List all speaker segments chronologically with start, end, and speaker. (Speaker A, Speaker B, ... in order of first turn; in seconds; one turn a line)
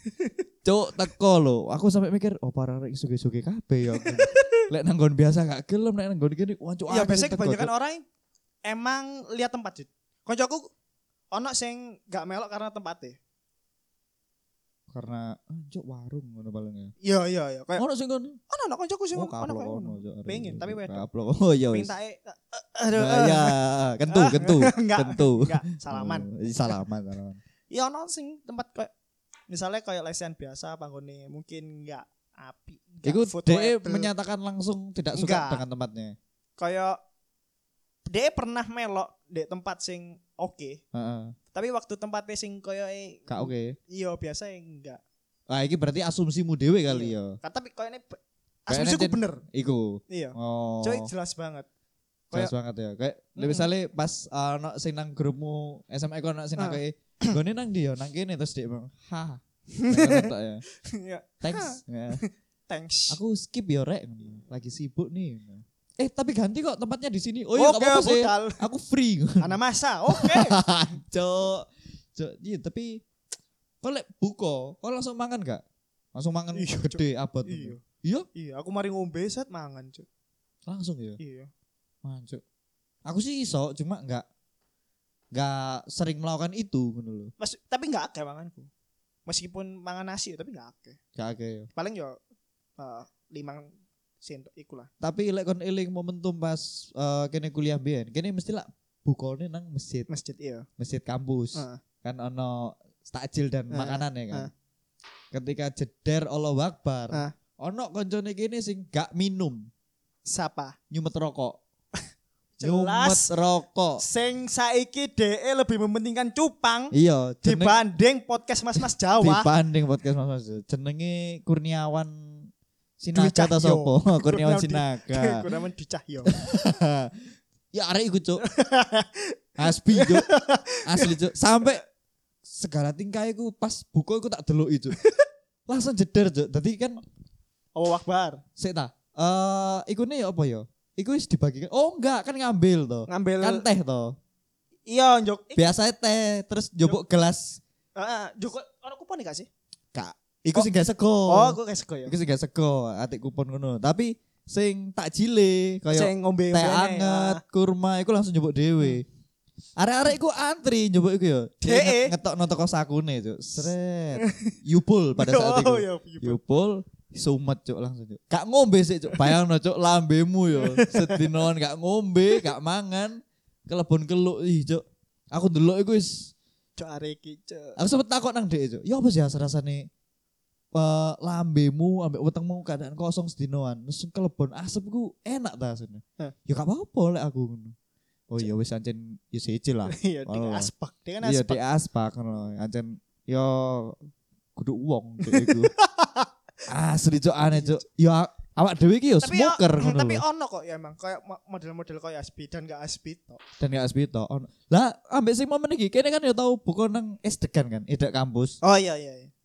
Speaker A: 0.6-7.7
Speaker B: 4.0-4.7
Speaker B: 6.9-8.0
Speaker B: 8.6-10.7
Speaker B: 11.3-13.2
Speaker A: 14.9-16.9
Speaker B: 17.0-17.8
Speaker A: 17.8-18.4
Speaker B: 18.5-21.0
Speaker A: 19.1-21.9
Speaker B: 21.7-23.6
Speaker A: 22.9-27.4
Speaker B: 24.1-26.3
Speaker B: 27.7-28.9
Speaker B: 29.5-34.1
Speaker A: 33.0-36.1
Speaker B: 35.1-35.6
Speaker B: 36.6-37.0
Speaker B: 38.1-40.8
Speaker A: 40.9-41.4
Speaker B: 41.5-45.0
Speaker A: 43.3-43.8
Speaker A: 45.5-47.4
Speaker B: 46.9-49.4
Speaker A: 48.7-51.1
Speaker B: 50.1-51.7
Speaker A: 52.3-60.6
Speaker B: 53.4-53.7
Speaker B: 56.6-57.4
Speaker B: 59.7-63.2
Speaker A: 61.4-62.2
Speaker A: 63.1-69.6
Speaker B: 67.6-68.6
Speaker B: 69.4-70.6
Speaker A: 70.1-73.0
Speaker A: 73.8-75.6
Speaker A: 76.1-78.3
Speaker B: 76.5-77.8
Speaker B: 78.3-80.1
Speaker A: 80.7-81.2
Speaker B: 81.2-81.5
Speaker A: 82.0-82.4
Speaker A: 83.0-84.2
Speaker A: 85.3-87.3
Speaker B: 87.4-88.7
Speaker B: 89.3-91.0
Speaker A: 91.2-91.7
Speaker B: 91.7-92.2
Speaker B: 92.8-93.7
Speaker B: 94.2-94.9
Speaker A: 95.0-100.1
Speaker B: 100.1-100.7
Speaker A: 100.8-104.5
Speaker B: 101.5-101.8
Speaker B: 103.7-104.5
Speaker A: 105.3-109.7
Speaker B: 110.3-110.8
Speaker A: 110.9-111.6
Speaker B: 112.6-113.3
Speaker A: 112.6-114.0
Speaker B: 114.0-119.5
Speaker A: 116.9-117.8
Speaker A: 119.2-122.5
Speaker A: 123.0-125.5
Speaker B: 123.1-126.4
Speaker A: 126.3-127.1
Speaker A: 127.7-128.4
Speaker B: 128.4-131.7
Speaker A: 129.6-130.3
Speaker A: 130.8-131.8
Speaker A: 132.4-134.9
Speaker B: 135.0-135.2
Speaker A: 135.7-137.0
Speaker B: 137.7-138.4
Speaker A: 138.6-144.2
Speaker B: 143.1-143.7
Speaker B: 144.9-145.6
Speaker A: 145.6-147.6
Speaker B: 147.9-149.5
Speaker A: 149.9-159.1
Speaker B: 151.3-152.1
Speaker B: 155.9-157.4
Speaker A: 159.8-176.3
Speaker B: 161.6-162.1
Speaker B: 164.2-164.5
Speaker B: 165.2-166.4
Speaker B: 170.6-171.3
Speaker B: 176.8-177.8
Speaker A: 177.8-179.9
Speaker A: 180.7-187.7
Speaker A: 188.3-190.7
Speaker B: 189.9-191.6
Speaker A: 191.2-194.0
Speaker A: 194.6-195.7
Speaker B: 195.2-196.3
Speaker A: 196.7-200.2
Speaker B: 197.5-197.8
Speaker B: 199.2-203.4
Speaker A: 203.6-208.6
Speaker B: 208.6-209.3